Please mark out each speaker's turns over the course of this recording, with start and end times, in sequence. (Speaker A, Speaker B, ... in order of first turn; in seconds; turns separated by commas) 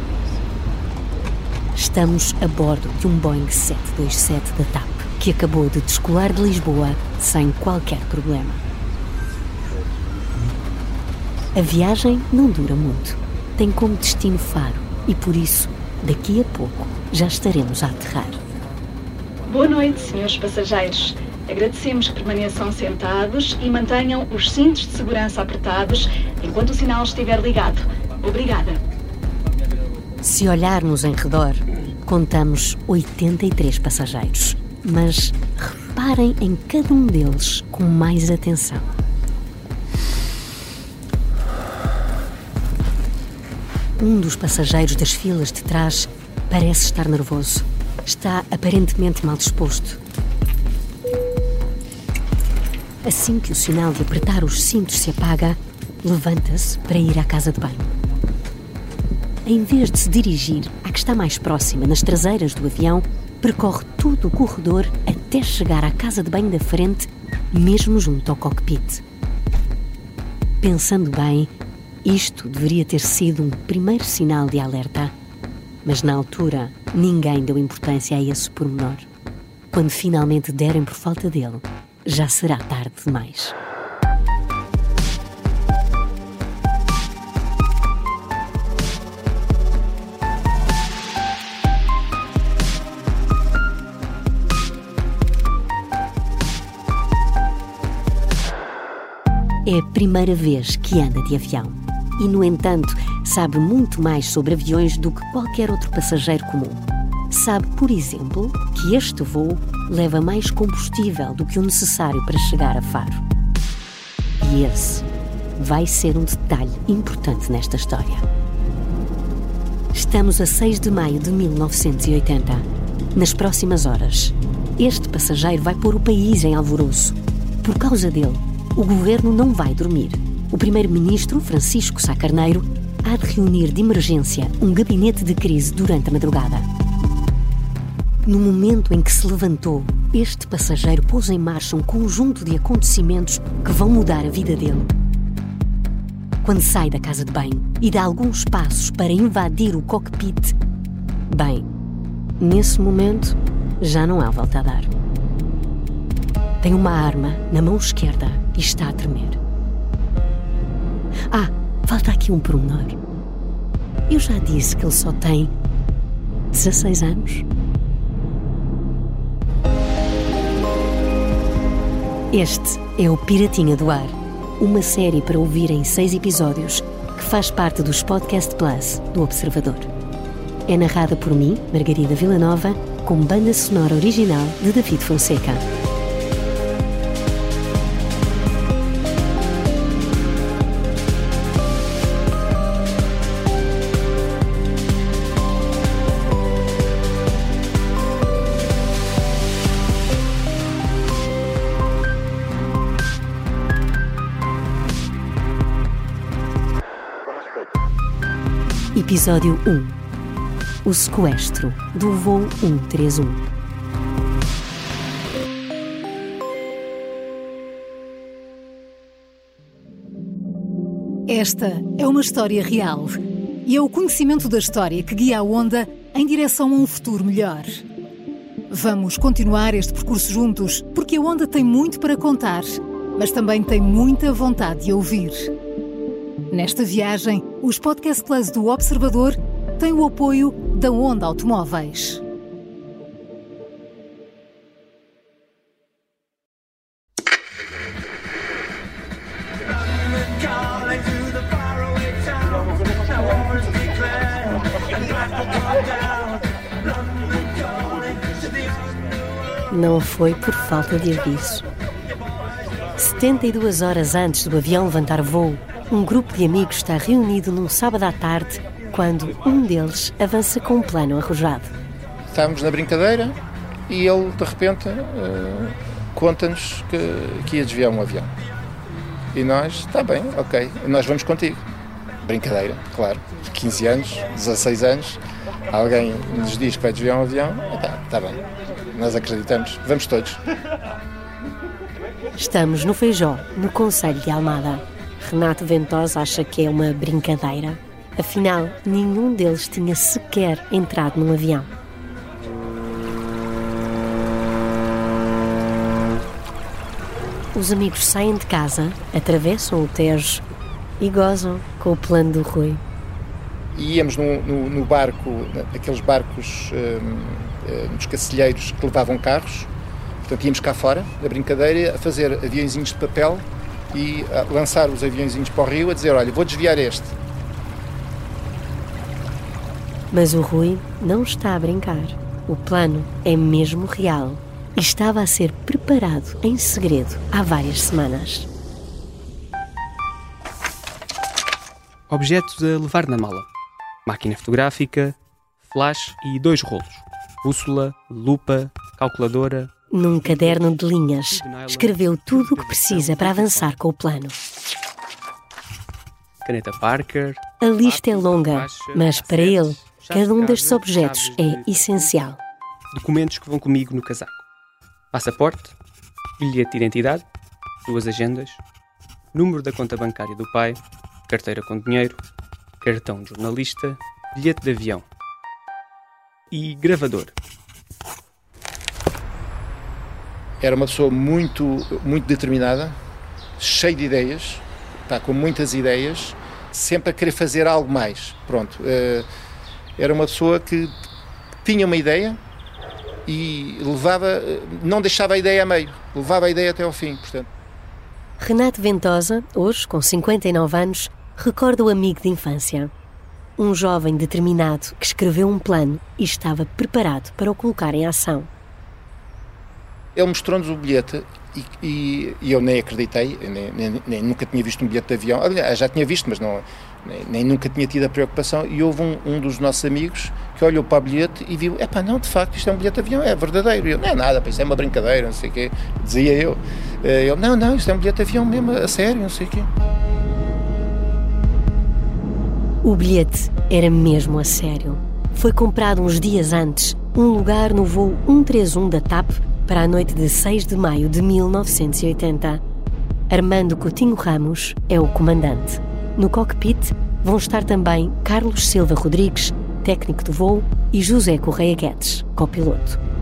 Speaker A: 1.8-8.6, Speaker A: 11.6-18.4, Speaker B: 19.5-28.8, Speaker A: 30.2-38.9, Speaker A: 44.0-50.0, Speaker A: 53.0-57.9, Speaker A: 59.5-69.0, Speaker A: 70.6-71.5, Speaker A: 72.0-75.1, Speaker A: 75.8-79.0, Speaker A: 79.7-83.5, Speaker A: 99.7-113.2, Speaker A: 114.4-115.0, Speaker A: 115.6-118.2, Speaker A: 119.9-122.6, Speaker A: 123.2-136.7, Speaker A: 138.3-144.9, Speaker A: 146.4-150.5, Speaker A: 151.3-151.6, Speaker A: 152.4-154.9, Speaker A: 156.6-159.4, Speaker A: 161.3-162.9, Speaker A: 164.1-165.5, Speaker A: 166.5-167.4, Speaker A: 172.3-179.9, Speaker A: 180.7-185.6, Speaker A: 208.9-210.0, Speaker A: 210.8-213.4, Speaker C: 221.3-227.8, Speaker C: 228.7-235.5, Speaker C: 236.5-242.2, Speaker A: 259.7-261.7, Speaker A: 263.0-271.7, Speaker D: 272.3-278.3, Speaker D: 279.3-281.6, Speaker D: 282.2-285.2, Speaker D: 285.7-290.4, Speaker A: 292.4-301.7, Speaker A: 307.5-310.4, Speaker A: 311.0-312.8, Speaker D: 313.8-319.7, Speaker D: 320.2-327.1, Speaker A: 330.1-338.5, Speaker E: 342.1-343.5, Speaker E: 344.1-353.8, Speaker A: 349.9-354.4, Speaker E: 356.4-362.3, Speaker A: 357.6-362.4, Speaker E: 362.9-364.4, Speaker E: 365.1-365.8, Speaker E: 366.4-367.3, Speaker E: 367.9-368.6, Speaker E: 369.3-372.2, Speaker E: 372.8-375.1, Speaker E: 376.5-377.3, Speaker D: 380.6-383.0, Speaker D: 383.6-389.3, Speaker D: 390.0-390.9, Speaker D: 391.6-392.4, Speaker D: 393.3-397.5, Speaker A: 398.4-402.9, Speaker A: 403.6-408.5, Speaker D: 410.1-429.7, Speaker A: 432.8-442.6, Speaker A: 443.3-453.0